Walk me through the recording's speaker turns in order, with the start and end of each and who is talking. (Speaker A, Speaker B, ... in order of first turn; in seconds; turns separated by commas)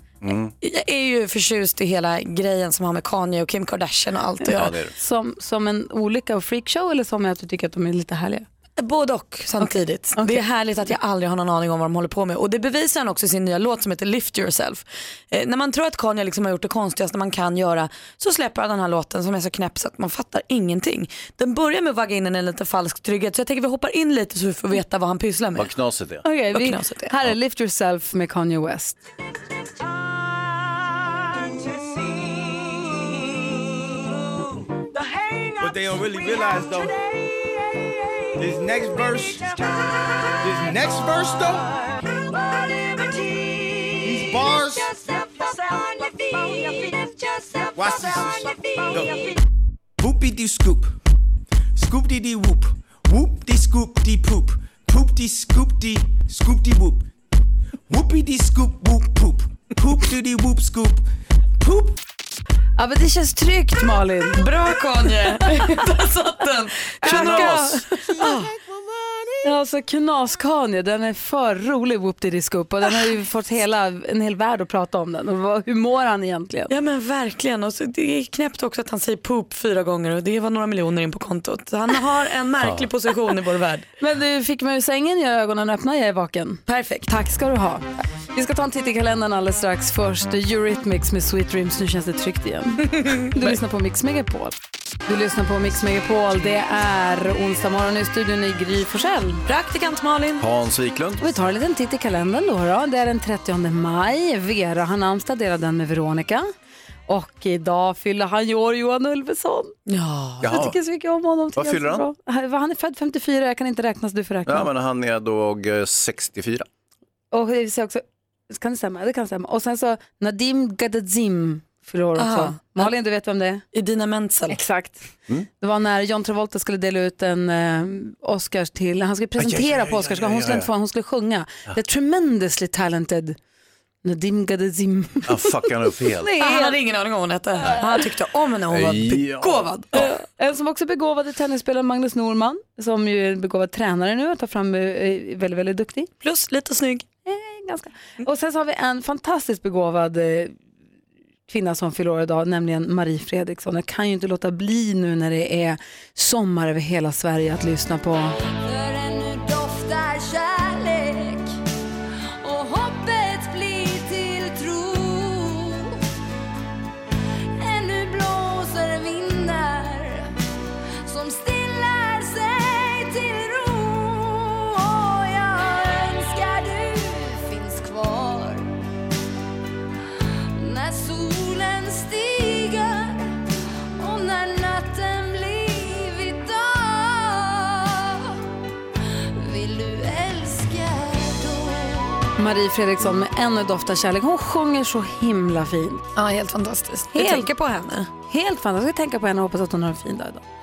Speaker A: 0.2-0.5, Speaker B: 0.6-4.8, Speaker A: 4.5-4.9, Speaker C: 5.0-8.4, Speaker B: 8.8-25.7, Speaker C: 9.6-10.4, Speaker A: 25.6-26.2, Speaker C: 26.2-29.0, Speaker B: 26.5-27.1, Speaker D: 31.7-33.2, Speaker D: 35.0-38.6, Speaker E: 35.6-36.9, Speaker E: 38.4-39.8, Speaker D: 39.6-40.9, Speaker E: 40.4-41.7, Speaker D: 41.5-49.4, Speaker E: 44.0-44.9, Speaker E: 47.8-49.2, Speaker E: 50.0-51.0, Speaker E: 51.7-57.1, Speaker E: 57.9-61.1, Speaker E: 61.6-62.0, Speaker C: 62.8-64.4, Speaker B: 64.3-68.5, Speaker A: 67.0-67.8, Speaker C: 67.0-68.3, Speaker C: 69.4-76.7, Speaker B: 76.7-83.9, Speaker A: 82.6-82.9, Speaker C: 84.0-94.5, Speaker B: 86.7-87.0, Speaker C: 95.1-99.4, Speaker B: 99.5-100.4, Speaker A: 100.4-101.3, Speaker C: 101.2-106.5, Speaker C: 107.1-109.7, Speaker B: 109.9-110.4, Speaker C: 110.4-114.7, Speaker A: 110.4-110.8, Speaker A: 111.6-112.0, Speaker A: 114.5-116.7, Speaker C: 117.3-123.6, Speaker B: 122.2-122.9, Speaker B: 123.7-124.6, Speaker C: 124.5-125.0, Speaker C: 125.6-133.4, Speaker A: 129.4-130.7, Speaker C: 134.0-135.5, Speaker A: 135.3-136.3, Speaker C: 136.1-136.8, Speaker B: 136.4-140.2, Speaker A: 138.7-140.1, Speaker C: 140.0-146.1, Speaker B: 146.2-147.1, Speaker C: 147.2-150.6, Speaker C: 151.5-158.4, Speaker D: 158.4-161.5, Speaker D: 162.4-166.0, Speaker D: 167.6-170.3, Speaker D: 171.1-178.7, Speaker D: 180.6-183.3, Speaker D: 184.0-188.4, Speaker D: 189.3-192.2, Speaker C: 192.4-196.1, Speaker B: 196.2-198.1, Speaker C: 197.1-197.5, Speaker C: 198.3-200.4